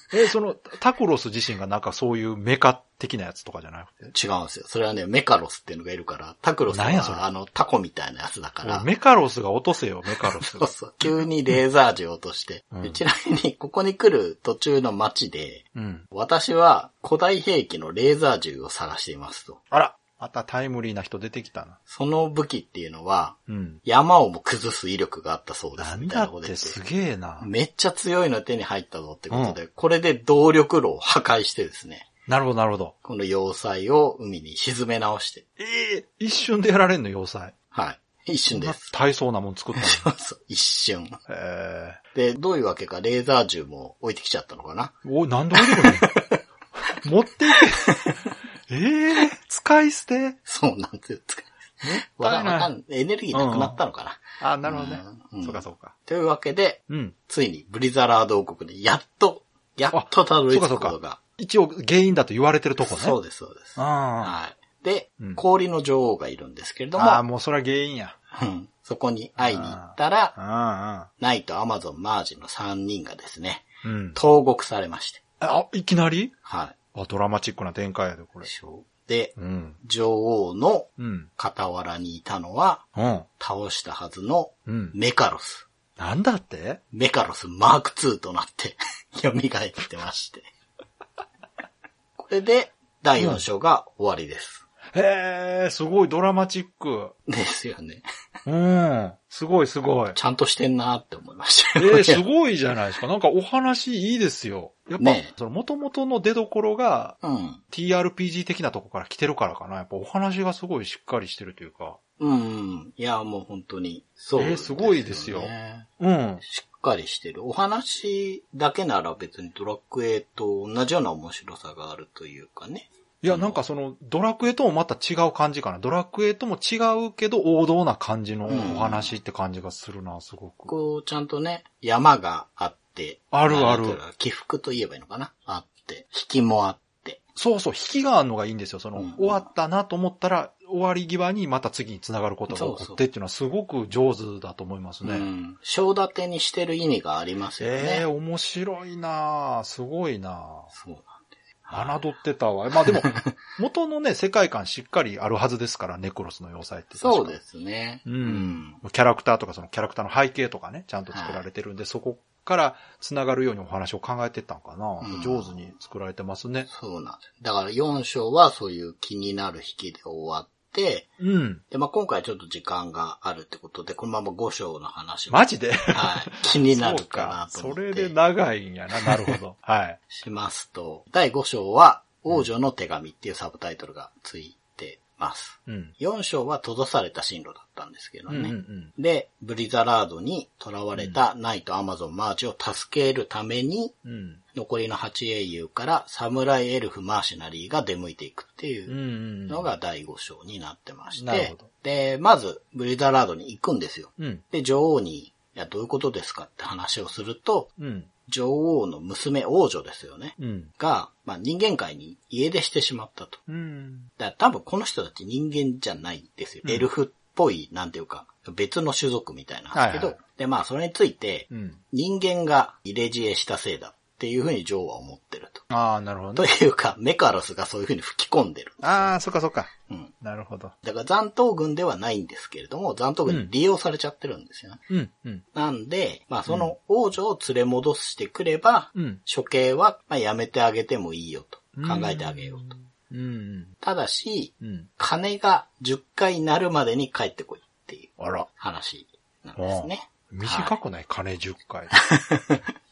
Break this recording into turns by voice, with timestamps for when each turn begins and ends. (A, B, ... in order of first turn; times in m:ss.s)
0:00.1-0:04.1 A
0:04.1-0:08.9 B
0:06.7-0:07.2 A
0:08.6-0:11.1 A
0:10.2-0:19.6 B
0:12.7-0:13.0 A
0:15.7-0:16.1 A
0:19.7-0:21.8 A
0:21.9-0:26.8 B
0:23.5-0:23.8 A
0:25.8-0:27.5 A
0:27.4-0:32.1 B
0:29.3-0:29.6 A
0:32.3-0:32.9 A
0:33.0-0:35.4 B
0:35.6-0:37.5 A
0:37.7-0:39.0 B
0:38.5-0:40.1 A
0:39.7-0:41.2 B
0:41.3-0:42.0 A
0:42.1-0:45.0 B
0:45.0-0:46.1 A
0:45.5-0:46.4 B
0:47.0-0:48.0 A
0:47.6-0:48.1 B
0:48.7-0:50.4 A
0:50.4-1:01.2 B
0:51.8-0:52.7 A
0:53.3-0:53.8 A
0:54.4-0:55.9 A
0:56.9-0:57.1 A
0:59.9-1:03.2 A
1:02.8-1:07.2 B
1:03.8-1:04.4 A
1:07.0-1:08.2 A
1:08.3-1:10.4 B
1:09.4-1:11.1 A
1:11.2-1:15.2 B
1:13.8-1:14.2 A
1:15.4-1:16.3 A
1:16.4-1:16.8 B
1:16.9-1:18.5 A
1:18.4-1:22.9 B
1:19.4-1:19.8 A
1:21.0-1:21.3 A
1:23.0-1:23.3 A
1:23.4-1:25.7 B
1:24.7-1:25.0 A
1:26.0-1:26.8 A
1:26.9-1:30.5 B
1:32.2-1:34.6 B
1:34.9-1:37.1 A
1:37.3-1:38.0 B
1:38.4-1:40.2 A
1:40.1-1:42.2 B
1:41.8-1:47.2 A
1:45.0-1:45.3 B
1:47.2-1:47.6 B
1:47.7-1:52.0 A
1:52.2-1:55.9 B
1:54.4-1:56.4 A
1:56.4-2:03.6 B
2:03.2-2:10.7 A
2:08.5-2:09.1 B
2:10.7-2:17.2 B
2:13.3-2:14.0 A
2:17.4-2:25.3 A
2:19.0-2:19.4 B
2:22.5-2:23.0 B
2:25.0-2:28.1 B
2:27.6-2:30.7 A
2:30.7-2:32.0 B
2:31.7-2:37.4 A
2:33.0-2:33.4 B
2:37.0-2:38.8 B
2:38.0-2:46.7 A
2:41.1-2:41.4 B
2:45.0-2:45.7 B
2:46.7-2:51.1 B
2:51.2-2:51.6 A
2:51.7-2:58.1 B
2:55.3-3:00.0 A
2:59.0-2:59.4 B
3:00.1-3:14.0 B
3:05.7-3:06.0 A
3:08.3-3:08.9 A
3:14.0-3:14.4 A
3:14.5-3:27.7 B
3:18.9-3:19.7 A
3:21.2-3:21.7 A
3:24.2-3:24.4 A
3:27.8-3:28.1 A
3:28.3-3:33.4 B
3:30.4-3:30.7 A
3:33.5-3:34.1 A
3:34.2-3:45.7 B
3:39.7-3:40.2 A
3:41.5-3:41.8 A
3:45.7-3:46.5 A
3:46.4-3:49.1 B
3:48.8-3:50.7 A
3:49.9-3:50.1 B
3:50.8-3:54.8 B
3:54.9-3:55.4 A
3:55.5-4:02.7 B
3:56.5-3:56.7 A
3:59.0-3:59.2 A
4:01.7-4:03.7 A
4:03.8-4:10.8 B
4:04.6-4:04.9 A
4:08.2-4:08.5 A
4:09.6-4:11.9 A
4:11.9-4:12.6 B